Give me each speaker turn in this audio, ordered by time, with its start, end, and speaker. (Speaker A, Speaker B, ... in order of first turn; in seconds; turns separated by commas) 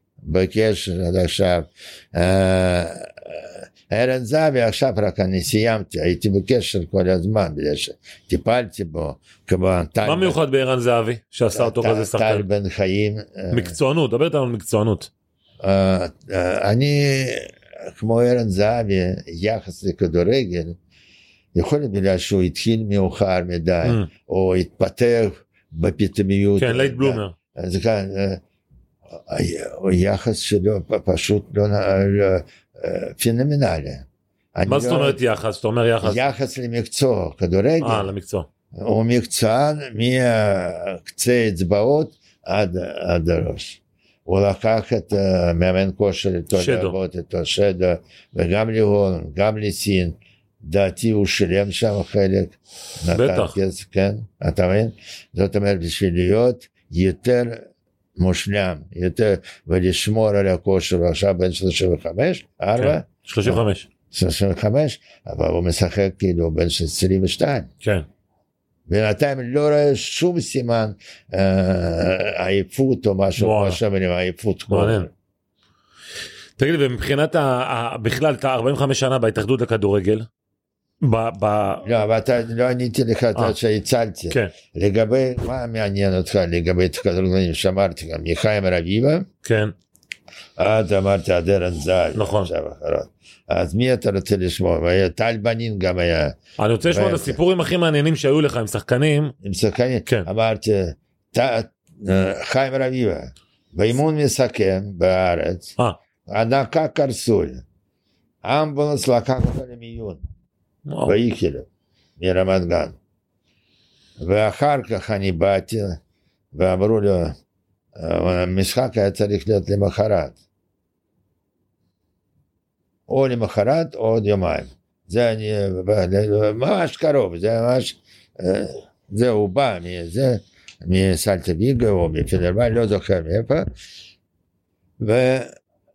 Speaker A: 0.2-10.4, Speaker B: 10.0-12.4, Speaker A: 11.5-13.8, Speaker B: 13.5-15.1, Speaker A: 15.6-20.8, Speaker A: 21.5-28.4, Speaker B: 23.8-24.1, Speaker B: 26.6-27.4, Speaker A: 29.1-35.2, Speaker B: 34.7-36.2, Speaker A: 36.0-38.1, Speaker B: 37.8-38.5, Speaker A: 38.8-57.6, Speaker B: 46.5-47.0, Speaker B: 53.1-53.5, Speaker A: 58.2-67.7, Speaker B: 62.8-63.9, Speaker A: 68.9-75.1, Speaker B: 73.4-73.8, Speaker B: 74.7-75.1, Speaker B: 76.6-80.3, Speaker B: 81.0-81.9, Speaker A: 81.8-89.3, Speaker B: 89.4-89.7, Speaker A: 90.6-97.4, Speaker B: 92.2-92.5, Speaker B: 96.6-99.3, Speaker A: 99.4-105.7, Speaker A: 106.3-107.6, Speaker A: 108.4-110.2, Speaker B: 110.9-111.2, Speaker A: 111.0-111.7, Speaker A: 112.2-113.0, Speaker A: 114.2-116.0, Speaker A: 116.5-117.3, Speaker A: 118.0-120.4, Speaker A: 123.1-133.7, Speaker A: 135.0-135.5